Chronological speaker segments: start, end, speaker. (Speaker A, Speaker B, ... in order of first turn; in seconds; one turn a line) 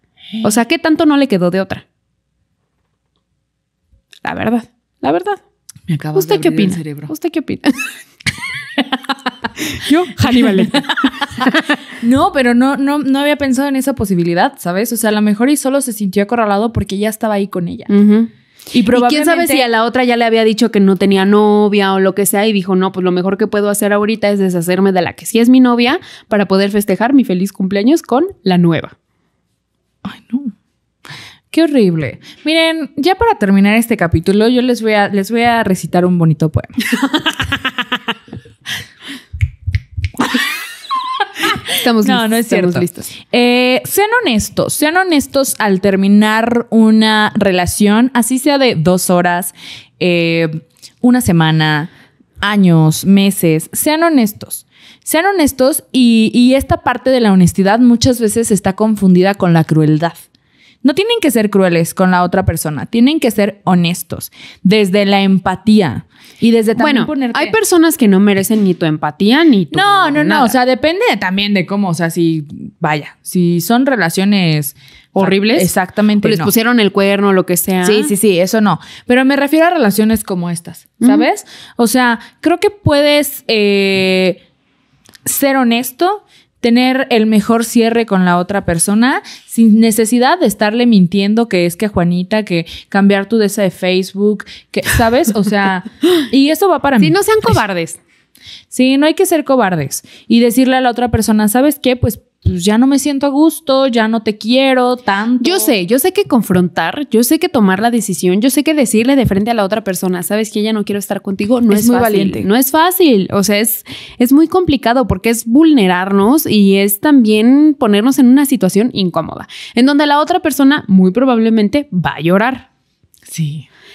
Speaker A: 0.4-1.9
Speaker A: 4.2-5.4
Speaker B: 5.9-7.1
Speaker A: 6.1-7.9
Speaker A: 9.7-11.6
Speaker B: 10.2-17.9
Speaker A: 17.9-18.3
Speaker B: 18.7-19.7
Speaker A: 18.9-28.9
Speaker B: 30.0-30.5
Speaker B: 31.5-37.7
Speaker B: 41.4-51.9
Speaker A: 41.8-43.1
Speaker B: 52.4-60.2
Speaker B: 60.8-67.5
Speaker A: 66.8-70.5
Speaker B: 69.7-76.5
Speaker A: 75.2-75.7
Speaker A: 76.2-78.1
Speaker B: 77.8-84.4
Speaker A: 81.0-81.3
Speaker B: 85.2-97.2
Speaker A: 97.0-98.0
Speaker B: 98.7-105.7
Speaker A: 105.4-122.7
Speaker B: 111.7-112.5
Speaker B: 123.3-123.7